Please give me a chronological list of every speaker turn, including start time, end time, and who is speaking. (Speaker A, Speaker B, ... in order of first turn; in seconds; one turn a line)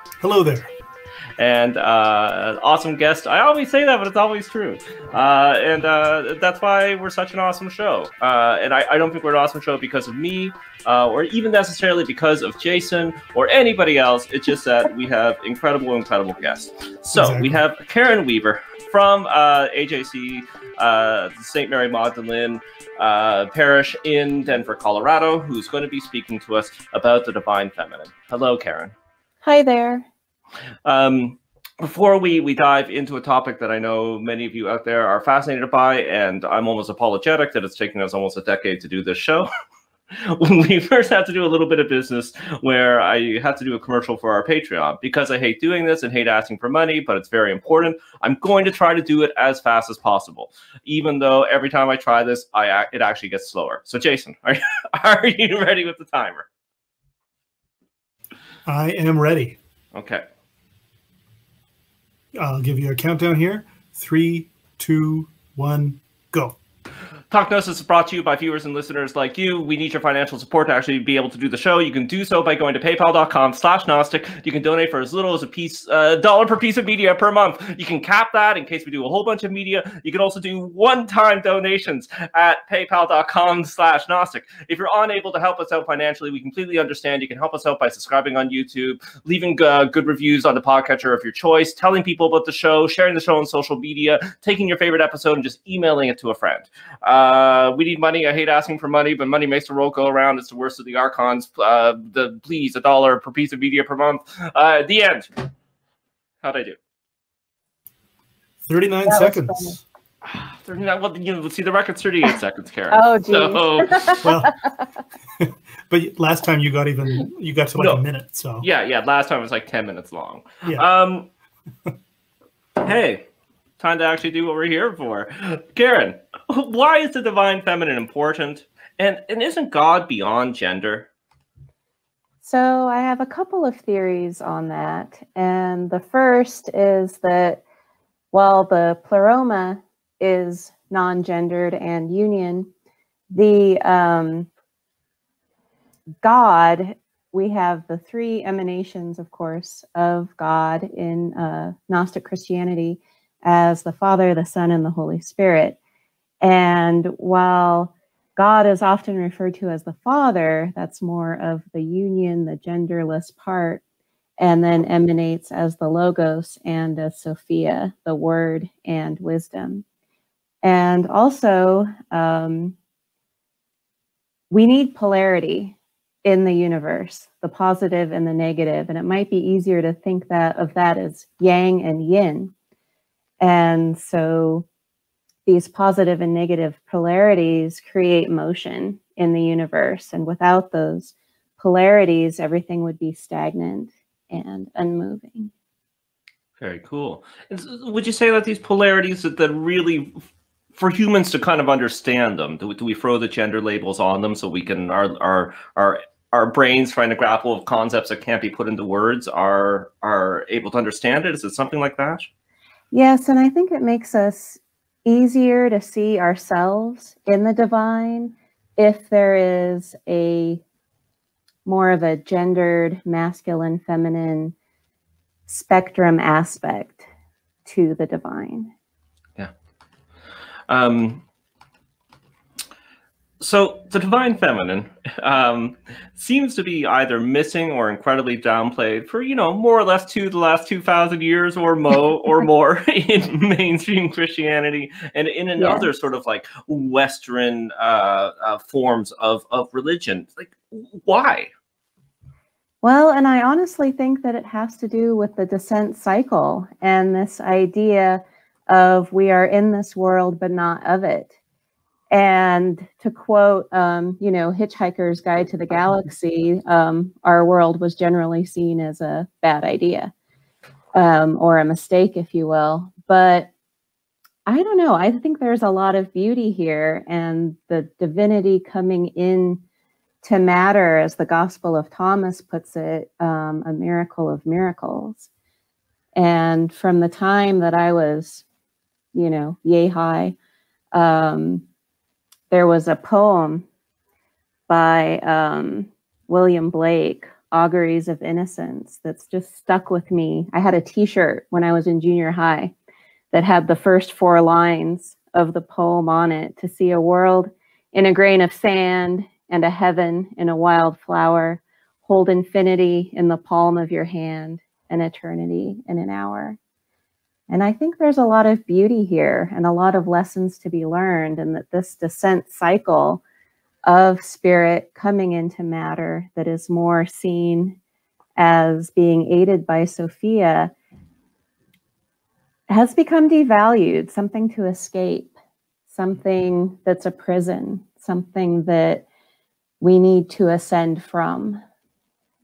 Speaker A: 0.2-0.7
Speaker B: 1.4-28.9
Speaker A: 17.1-17.5
Speaker C: 29.4-30.1
Speaker B: 30.8-39.5
Speaker B: 40.1-56.5
Speaker A: 58.6-59.6
Speaker B: 59.9-60.2
Speaker A: 62.4-66.6
Speaker B: 67.3-105.3
Speaker B: 106.4-106.8
Speaker A: 108.6-109.8
Speaker C: 109.0-109.8
Speaker B: 110.3-114.2
Speaker C: 112.9-114.5
Speaker A: 114.2-114.5
Speaker A: 115.4-118.7
Speaker B: 118.6-121.3
Speaker B: 122.8-123.2
Speaker B: 123.8-131.1
Speaker C: 132.4-137.6
Speaker C: 138.3-142.7
Speaker C: 143.3-144.5
Speaker C: 146.2-155.8
Speaker C: 156.4-163.8
Speaker C: 164.4-169.8
Speaker C: 170.6-172.8
Speaker C: 174.5-182.5
Speaker C: 183.4-184.7
Speaker C: 185.4-195.5
Speaker B: 196.6-200.2
Speaker B: 200.8-212.3
Speaker C: 212.9-220.6
Speaker C: 221.6-224.5
Speaker C: 225.5-227.1
Speaker C: 227.7-228.7
Speaker B: 230.7-231.2
Speaker B: 233.4-251.5
Speaker C: 245.6-245.9
Speaker C: 252.8-261.3
Speaker C: 262.1-270.1
Speaker C: 270.9-273.5
Speaker C: 274.4-279.6
Speaker C: 280.2-285.3
Speaker C: 286.1-288.4
Speaker C: 289.1-290.3
Speaker C: 290.9-291.6
Speaker C: 292.5-293.6
Speaker C: 294.7-302.7
Speaker C: 303.3-316.6
Speaker C: 317.5-323.2
Speaker C: 323.8-327.8
Speaker C: 328.4-330.7
Speaker C: 332.7-335.3
Speaker C: 335.9-339.0
Speaker C: 339.8-341.6